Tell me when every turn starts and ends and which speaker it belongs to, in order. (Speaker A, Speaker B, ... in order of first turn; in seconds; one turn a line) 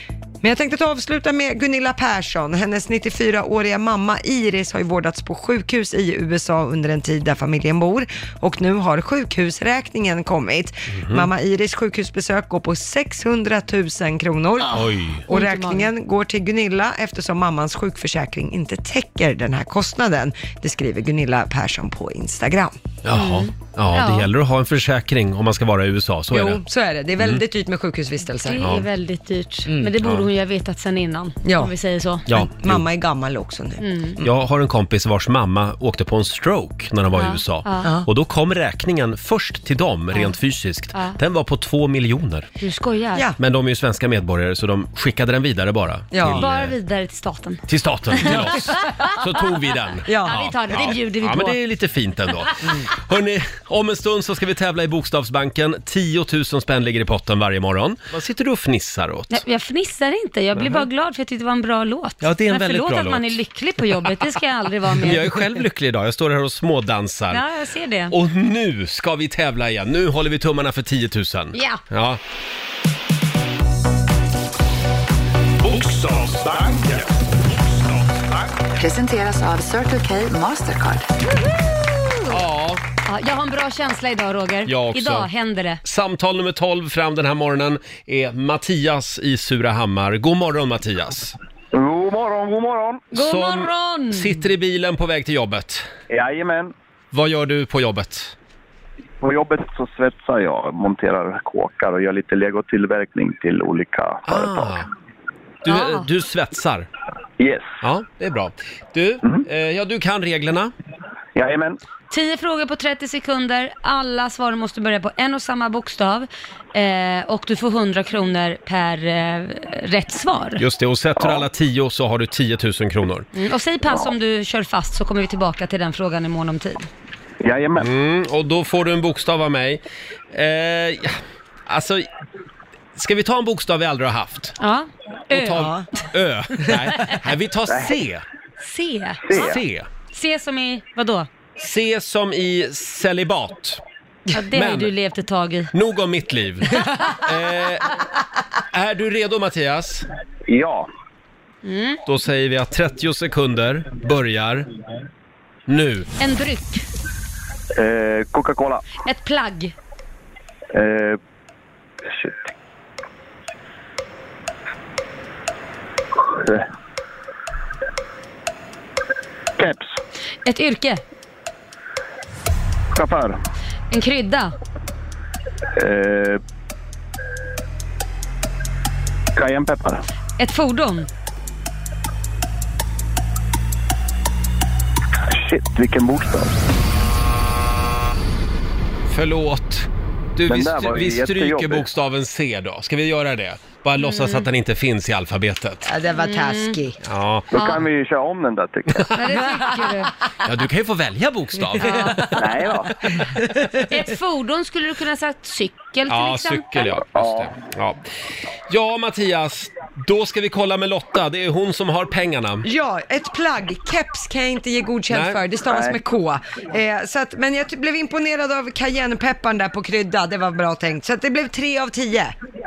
Speaker A: 0.4-22.8
Speaker B: 10.9-11.3
Speaker B: 14.7-15.2
Speaker C: 15.3-15.9
Speaker B: 23.0-26.6
Speaker C: 23.1-24.3
Speaker A: 26.3-28.7
Speaker C: 28.4-32.3
Speaker B: 28.6-28.9
Speaker B: 30.0-30.3
Speaker A: 31.4-31.7
Speaker B: 32.3-32.8
Speaker A: 32.3-34.2
Speaker C: 33.8-34.2
Speaker B: 34.2-42.5
Speaker C: 37.1-37.9
Speaker A: 37.8-38.1
Speaker C: 40.9-41.2
Speaker C: 42.6-43.3
Speaker B: 43.4-46.8
Speaker A: 46.1-46.4
Speaker C: 46.3-49.2
Speaker B: 47.7-59.4
Speaker A: 50.1-50.4
Speaker C: 50.2-51.6
Speaker C: 59.3-65.5
Speaker B: 60.5-60.9
Speaker B: 62.2-63.4
Speaker B: 65.0-67.4
Speaker C: 67.3-68.1
Speaker B: 68.1-72.2
Speaker C: 71.5-71.8
Speaker D: 75.6-78.6
Speaker E: 78.8-81.1
Speaker B: 82.3-82.8
Speaker C: 83.1-85.8
Speaker B: 84.7-85.3
Speaker B: 85.8-91.4
Speaker F: 91.7-93.0
Speaker C: 93.1-94.5
Speaker B: 93.1-95.9
Speaker F: 96.1-96.7
Speaker B: 97.1-98.3
Speaker F: 99.2-104.8
Speaker B: 104.3-104.9
Speaker B: 105.6-106.9
Speaker C: 105.7-106.1
Speaker F: 107.4-107.7
Speaker B: 107.8-110.7
Speaker F: 111.3-111.8
Speaker C: 112.1-120.6
Speaker B: 120.6-123.3
Speaker C: 123.3-126.9
Speaker F: 127.4-127.9
Speaker B: 127.8-132.1
Speaker B: 132.9-134.6
Speaker C: 134.6-135.7
Speaker B: 135.3-138.2
Speaker A: 135.6-135.8
Speaker F: 137.7-137.9
Speaker C: 138.6-139.3
Speaker F: 139.2-139.6
Speaker B: 139.3-139.9
Speaker C: 140.1-141.3
Speaker B: 141.6-143.8
Speaker C: 144.3-145.7
Speaker B: 144.5-144.9
Speaker B: 145.7-147.9
Speaker B: 148.7-150.1
Speaker F: 150.5-150.9
Speaker C: 151.6-152.0
Speaker B: 152.1-154.7
Speaker B: 155.7-156.1
Speaker C: 156.2-156.9
Speaker F: 157.8-158.8
Speaker C: 159.0-159.7
Speaker F: 160.7-161.2
Speaker F: 162.1-162.5
Speaker F: 166.2-166.7
Speaker F: 169.6-170.0
Speaker C: 170.4-171.0
Speaker F: 172.9-173.4
Speaker C: 173.9-174.5
Speaker F: 175.8-176.4
Speaker F: 179.3-180.0
Speaker C: 180.4-181.1
Speaker F: 185.2-186.6
Speaker B: 189.1-195.9
Speaker F: 190.5-191.9
Speaker C: 194.0-194.5
Speaker A: 195.8-197.0
Speaker C: 196.1-196.8
Speaker B: 197.0-197.5
Speaker F: 197.5-199.1
Speaker C: 197.6-197.8
Speaker C: 199.2-200.1
Speaker B: 200.4-202.2
Speaker C: 201.8-202.4
Speaker A: 201.8-202.2
Speaker F: 202.3-202.9
Speaker C: 203.9-207.0
Speaker B: 206.1-208.1
Speaker F: 207.1-207.5
Speaker B: 208.7-212.7
Speaker A: 212.6-222.4
Speaker B: 215.1-215.4
Speaker F: 215.7-216.0